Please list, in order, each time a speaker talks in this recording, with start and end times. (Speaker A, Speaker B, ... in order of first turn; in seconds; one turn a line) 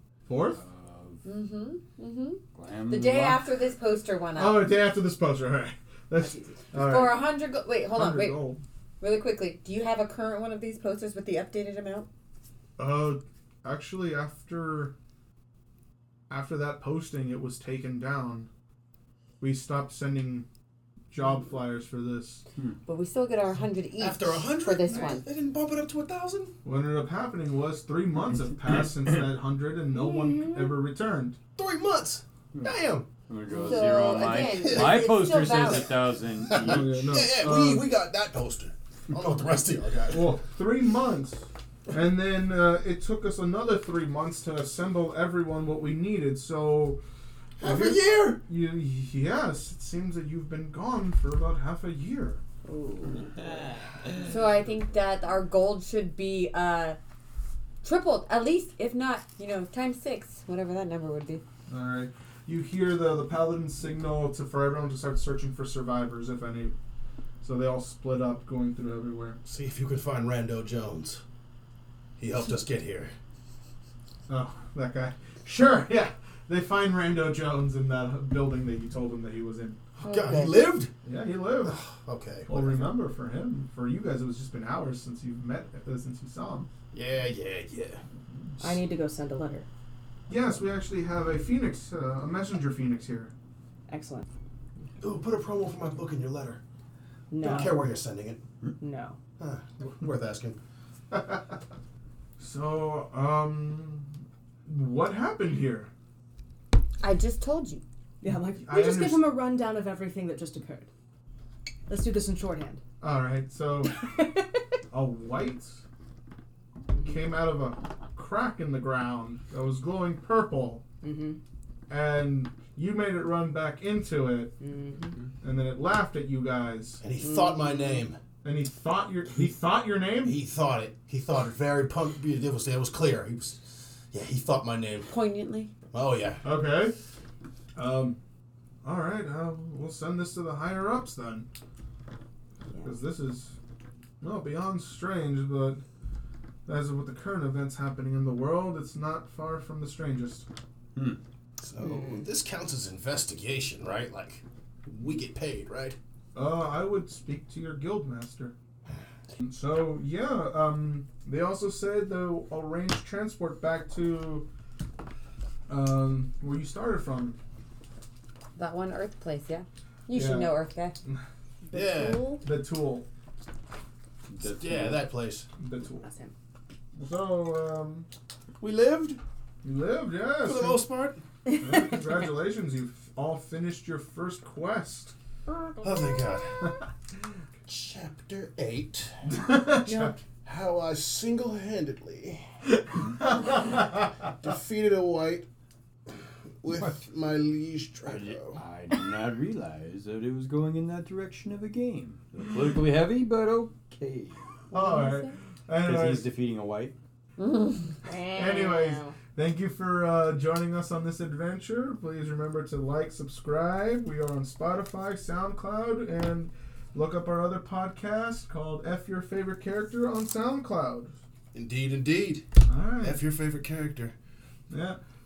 Speaker A: 0.3-0.6
Speaker B: 0.5-1.2
Speaker C: 1.2-4.7
Speaker B: 2.5-3.4
Speaker A: 4.3-7.3
Speaker D: 6.2-6.5
Speaker C: 6.8-12.1
Speaker A: 7.9-8.6
Speaker A: 12.8-14.9
Speaker A: 16.3-18.5
Speaker A: 19.4-20.4
Speaker A: 21.1-22.4
Speaker C: 22.9-25.2
Speaker E: 24.0-26.5
Speaker A: 26.6-31.4
Speaker D: 29.9-30.7
Speaker E: 31.6-33.1
Speaker B: 32.5-37.2
Speaker C: 33.5-35.9
Speaker E: 34.2-35.3
Speaker E: 36.4-40.3
Speaker A: 36.5-37.9
Speaker A: 40.1-47.0
Speaker E: 47.6-48.4
Speaker A: 47.6-52.4
Speaker D: 52.6-53.6
Speaker C: 54.2-57.0
Speaker C: 57.8-61.4
Speaker A: 61.7-66.7
Speaker A: 67.4-69.4
Speaker E: 69.5-71.2
Speaker E: 72.2-73.1
Speaker A: 74.3-79.8
Speaker E: 80.0-80.9
Speaker C: 80.0-80.7
Speaker A: 81.0-81.8
Speaker E: 81.6-82.9
Speaker A: 82.5-86.7
Speaker E: 86.9-88.0
Speaker D: 88.6-89.7
Speaker A: 90.3-93.3
Speaker D: 93.9-94.2
Speaker E: 95.0-96.6
Speaker D: 97.3-97.8
Speaker E: 97.4-98.4
Speaker D: 98.8-99.2
Speaker E: 99.4-100.6
Speaker A: 102.4-104.1
Speaker A: 104.7-105.9
Speaker C: 107.0-107.8
Speaker D: 108.2-110.9
Speaker A: 108.6-109.3
Speaker D: 111.9-112.8
Speaker A: 113.0-113.9
Speaker D: 114.1-114.5
Speaker A: 114.9-115.8
Speaker A: 117.0-120.8
Speaker D: 121.0-121.4
Speaker A: 121.9-124.5
Speaker D: 124.6-125.2
Speaker A: 125.4-127.0
Speaker E: 127.0-128.2
Speaker D: 127.2-128.0
Speaker A: 128.4-130.3
Speaker E: 130.2-135.1
Speaker C: 135.1-135.7
Speaker E: 135.9-136.4
Speaker A: 136.4-136.9
Speaker A: 137.8-138.2
Speaker A: 138.8-141.5
Speaker A: 142.8-143.6
Speaker A: 144.2-145.8
Speaker A: 146.7-150.4
Speaker E: 151.6-156.0
Speaker A: 156.3-158.5
Speaker A: 159.4-164.5
Speaker A: 165.7-167.4
Speaker C: 168.6-170.9
Speaker A: 170.1-170.5
Speaker D: 171.6-172.4
Speaker E: 171.7-172.4
Speaker A: 172.4-173.1
Speaker B: 174.3-175.1
Speaker E: 174.4-175.4
Speaker A: 175.6-176.1
Speaker D: 176.0-176.3
Speaker A: 176.9-178.1
Speaker E: 178.6-179.2
Speaker A: 179.6-180.8
Speaker E: 180.4-181.2
Speaker A: 181.5-185.1
Speaker E: 185.8-186.8
Speaker E: 187.7-189.1
Speaker A: 189.3-190.1
Speaker D: 189.8-190.2
Speaker E: 190.4-192.4
Speaker A: 193.2-194.0
Speaker E: 194.3-195.5
Speaker E: 196.6-198.6
Speaker B: 196.7-197.0
Speaker B: 198.1-204.4
Speaker A: 204.7-206.3
Speaker C: 204.7-205.3
Speaker B: 205.8-206.9
Speaker C: 207.4-207.9
Speaker D: 208.0-209.1
Speaker A: 208.3-221.1
Speaker E: 221.5-222.4
Speaker A: 222.7-223.2
Speaker E: 223.0-224.1
Speaker A: 224.7-225.0